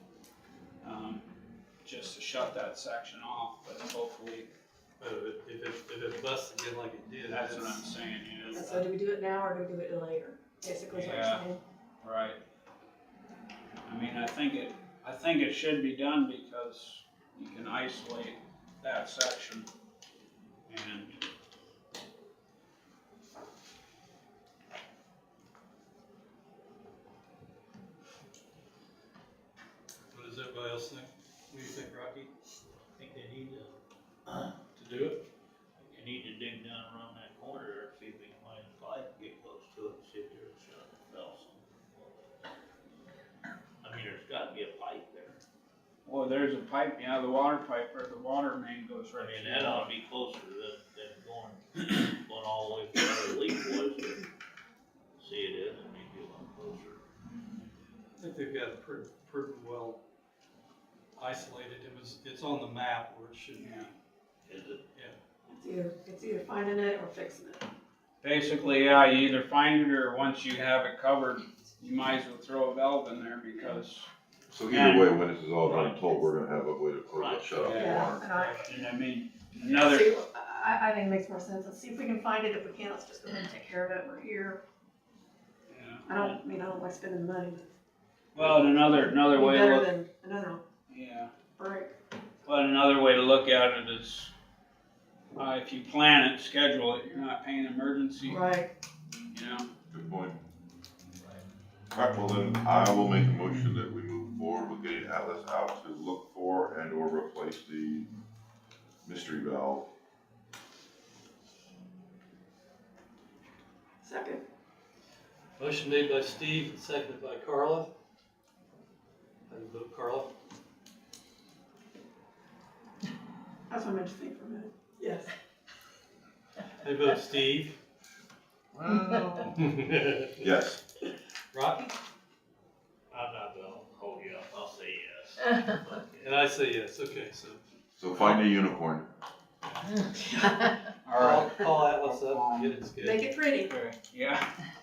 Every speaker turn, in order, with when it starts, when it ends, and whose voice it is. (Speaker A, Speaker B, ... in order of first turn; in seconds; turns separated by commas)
Speaker A: 0.8-1.2, Speaker A: 1.8-4.5, Speaker B: 5.0-7.9, Speaker A: 7.2-8.8, Speaker C: 8.5-11.6, Speaker A: 10.9-11.4, Speaker A: 12.0-12.4, Speaker A: 13.8-19.7, Speaker A: 20.7-21.2, Speaker B: 30.1-32.3, Speaker D: 32.7-33.7, Speaker D: 34.3-34.5, Speaker B: 34.7-35.2, Speaker D: 35.8-42.5, Speaker D: 43.8-45.4, Speaker A: 46.0-49.9, Speaker D: 49.1-54.3, Speaker D: 55.2-57.0, Speaker B: 58.2-60.0, Speaker B: 61.1-63.8, Speaker A: 63.5-63.9, Speaker D: 64.5-64.8, Speaker C: 65.5-67.6, Speaker A: 68.2-74.1, Speaker E: 74.5-78.2, Speaker A: 74.7-75.2, Speaker B: 75.7-76.0, Speaker D: 77.1-78.2, Speaker A: 77.6-80.2, Speaker C: 77.8-78.8, Speaker C: 79.7-84.6, Speaker A: 85.7-86.4, Speaker C: 86.0-87.6, Speaker A: 88.3-89.9, Speaker C: 88.8-90.6, Speaker A: 90.9-91.3, Speaker C: 91.6-91.9, Speaker A: 92.4-94.3, Speaker A: 95.3-98.4, Speaker C: 98.2-98.7, Speaker A: 99.3-99.7, Speaker E: 99.9-100.4, Speaker E: 101.9-108.1, Speaker E: 109.0-109.9, Speaker C: 114.0-114.4, Speaker B: 115.6-117.9, Speaker B: 119.5-120.3, Speaker C: 123.7-125.3, Speaker B: 126.8-127.8, Speaker E: 128.7-129.6, Speaker B: 129.5-130.4, Speaker E: 130.4-130.8, Speaker B: 131.5-131.9, Speaker D: 133.1-136.4, Speaker B: 136.2-137.6, Speaker E: 138.0-139.1, Speaker B: 139.7-140.1, Speaker C: 140.1-140.8, Speaker A: 141.0-142.8, Speaker B: 141.1-143.9, Speaker C: 143.0-143.8, Speaker A: 144.1-144.5